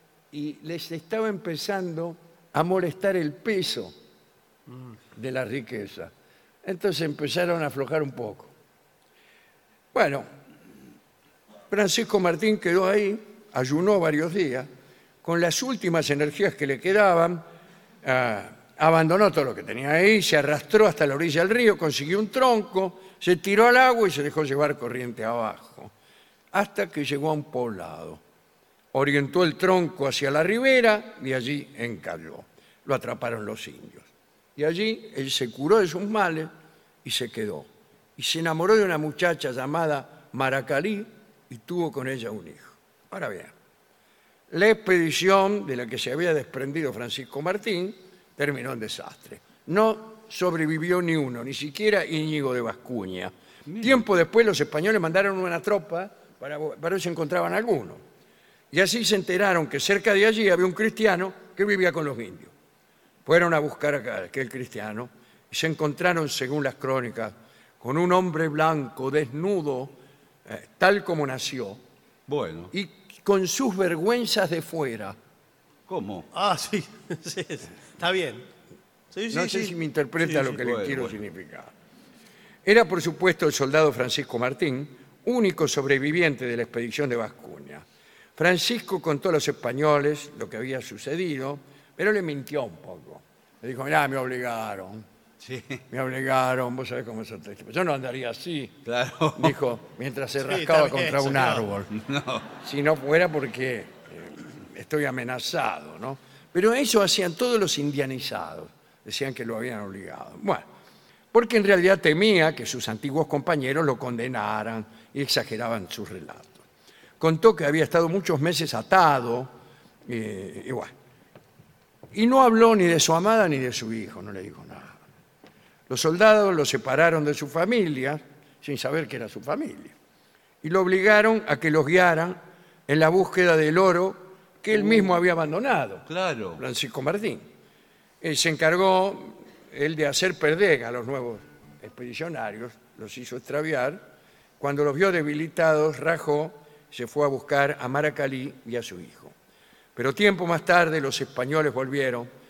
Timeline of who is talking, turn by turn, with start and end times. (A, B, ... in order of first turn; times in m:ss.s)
0:00.3-0:03.9 A
0:05.1-0:06.1 A
0:06.6-0:08.5 A
0:09.9-0:10.3 A
0:11.7-0:14.7 A
0:15.2-0:17.4 A
0:18.0-0:25.9 A
0:26.5-0:28.2 A
0:28.9-0:36.5 A
0:37.0-0:43.5 A
0:44.5-0:58.0 A
0:53.7-0:54.0 B
0:58.7-1:02.5 A
1:03.2-1:11.8 A
1:12.3-1:12.7 B
1:12.7-1:15.2 A
1:15.9-1:16.3 B
1:16.3-1:18.4 C
1:19.1-1:20.6 C
1:19.3-1:21.7 A
1:20.6-1:21.2 B
1:22.6-1:27.8 A
1:28.4-1:35.0 A
1:35.4-1:35.8 B
1:35.9-1:38.8 A
1:38.8-1:39.5 B
1:39.4-1:41.9 A
1:40.4-1:41.6 C
1:41.9-1:42.5 B
1:42.6-1:50.6 A
1:51.3-1:56.6 A
1:57.2-1:59.5 A
2:00.0-2:00.9 A
2:02.1-2:05.0 A
2:05.9-2:09.9 A
2:10.6-2:16.0 A
2:16.1-2:16.6 B
2:16.6-2:17.4 A
2:18.2-2:24.0 A
2:24.6-2:29.3 A
2:29.9-2:32.3 A